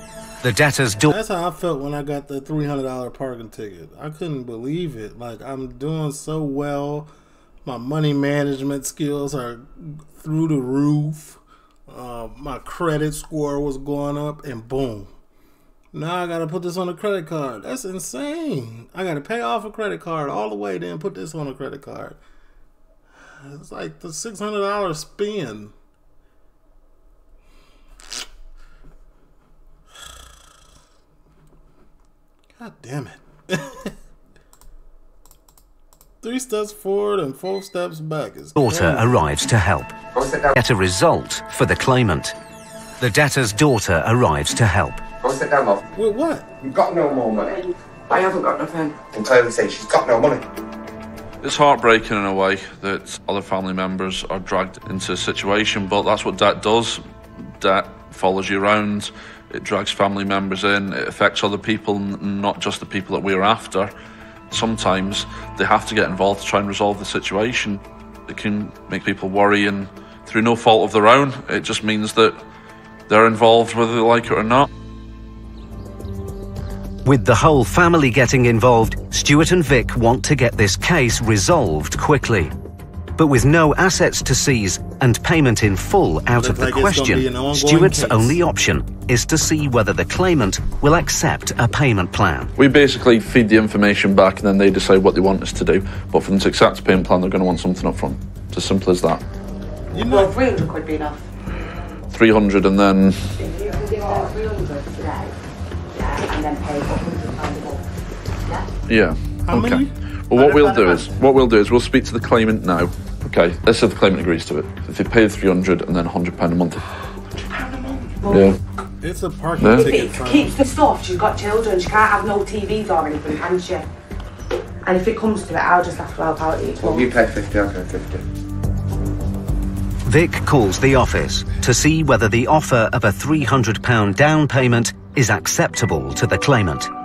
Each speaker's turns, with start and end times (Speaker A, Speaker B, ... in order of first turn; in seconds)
Speaker A: 0.4-1.1, 38.6-39.9, 40.5-42.4, 43.0-45.0, 77.0-82.5, 83.2-92.5, 130.1-136.9
Speaker B: 1.0-7.1, 7.7-15.1, 15.9-22.2, 23.4-25.7, 32.6-33.9, 36.2-39.2, 46.0-46.5, 86.4-88.4, 99.9-100.4, 109.5-109.9, 119.0-120.6
Speaker C: 40.1-40.6, 45.2-45.8, 46.6-47.6, 49.1-50.4, 126.8-128.2
Speaker D: 48.1-49.0, 100.0-101.2, 103.4-105.3, 105.9-107.8, 110.7-111.0, 117.5-118.6, 119.7-123.9, 124.8-127.1
Speaker E: 51.4-57.0, 57.6-63.9, 64.5-72.4, 73.1-74.7, 92.6-99.2, 102.1-103.4, 108.9-116.8, 118.3-118.6, 119.6-119.9